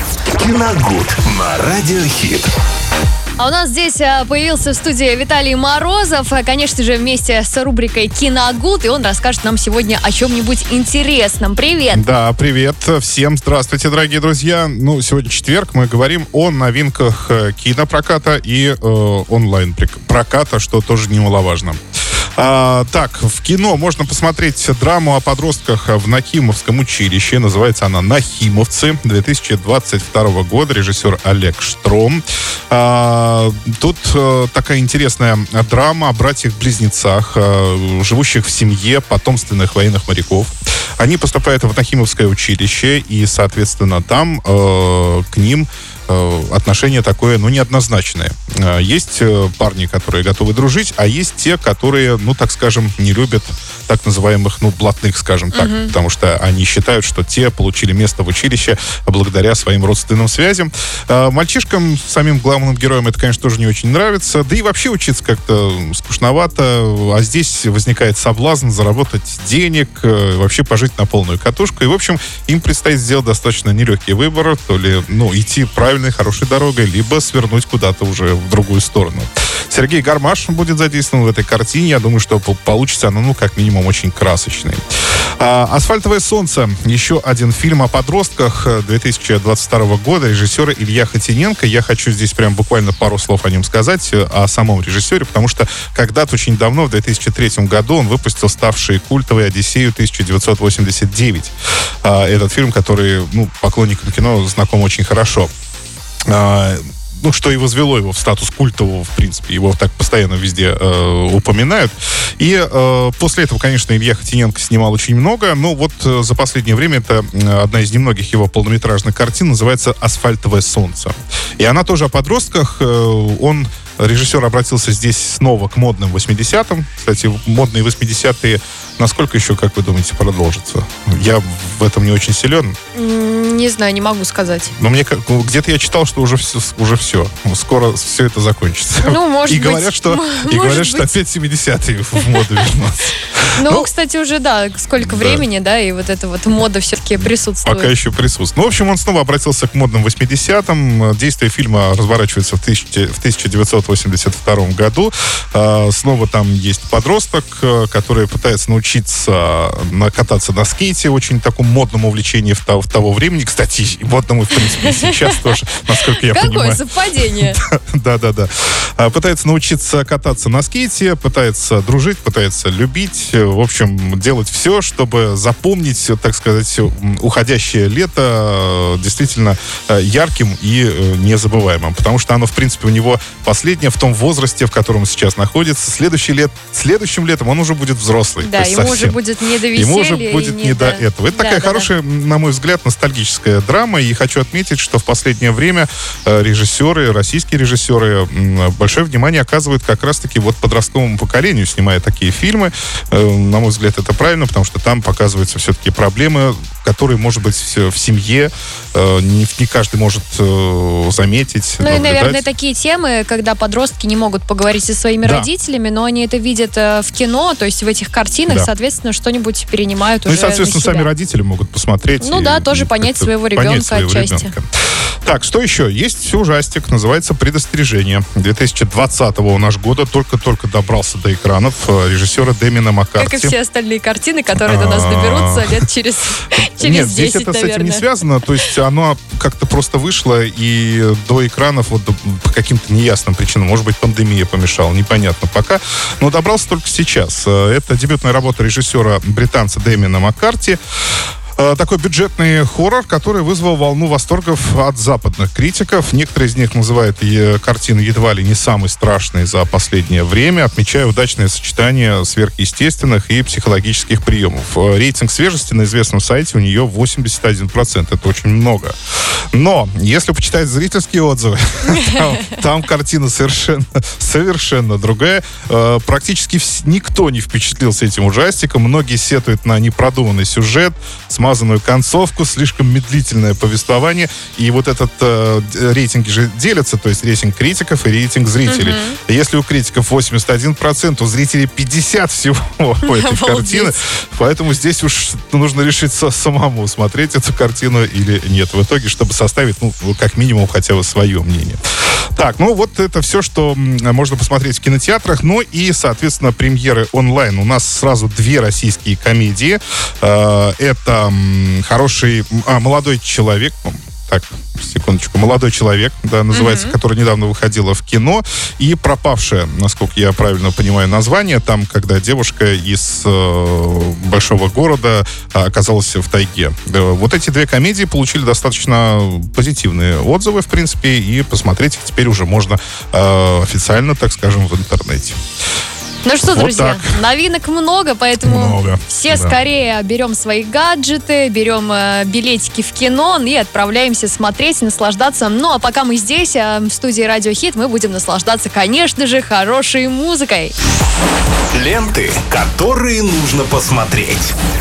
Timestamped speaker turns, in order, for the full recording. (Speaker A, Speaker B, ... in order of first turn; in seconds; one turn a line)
Speaker A: 0.3-2.5
Speaker B: 3.4-12.0
Speaker C: 11.9-21.8
Speaker C: 22.4-84.8
Speaker B: 55.5-55.9
Speaker C: 85.4-101.5
Speaker C: 102.0-105.5
Speaker C: 106.3-132.7
Speaker B: 132.9-134.7
Speaker C: 134.8-143.9
Speaker B: 139.0-141.1
Speaker B: 142.2-142.6
Speaker B: 143.6-147.9
Speaker C: 145.0-145.4
Speaker C: 147.6-166.8
Speaker B: 164.6-165.5
Speaker B: 166.0-167.6
Speaker C: 167.3-189.2
Speaker B: 188.4-191.9
Speaker C: 189.7-212.4
Speaker B: 211.8-221.1
Speaker C: 215.2-215.5
Speaker C: 220.2-224.7
Speaker B: 222.2-224.5
Speaker C: 225.2-233.5
Speaker B: 233.2-238.1
Speaker C: 234.6-235.8
Speaker C: 236.6-250.8
Speaker C: 251.6-268.9
Speaker C: 269.5-301.8
Speaker B: 288.7-289.2
Speaker B: 293.0-293.9
Speaker C: 302.4-335.4
Speaker B: 316.5-316.9
Speaker B: 336.2-350.7
Speaker C: 336.5-337.1
Speaker C: 338.4-339.6
Speaker A: 351.7-354.5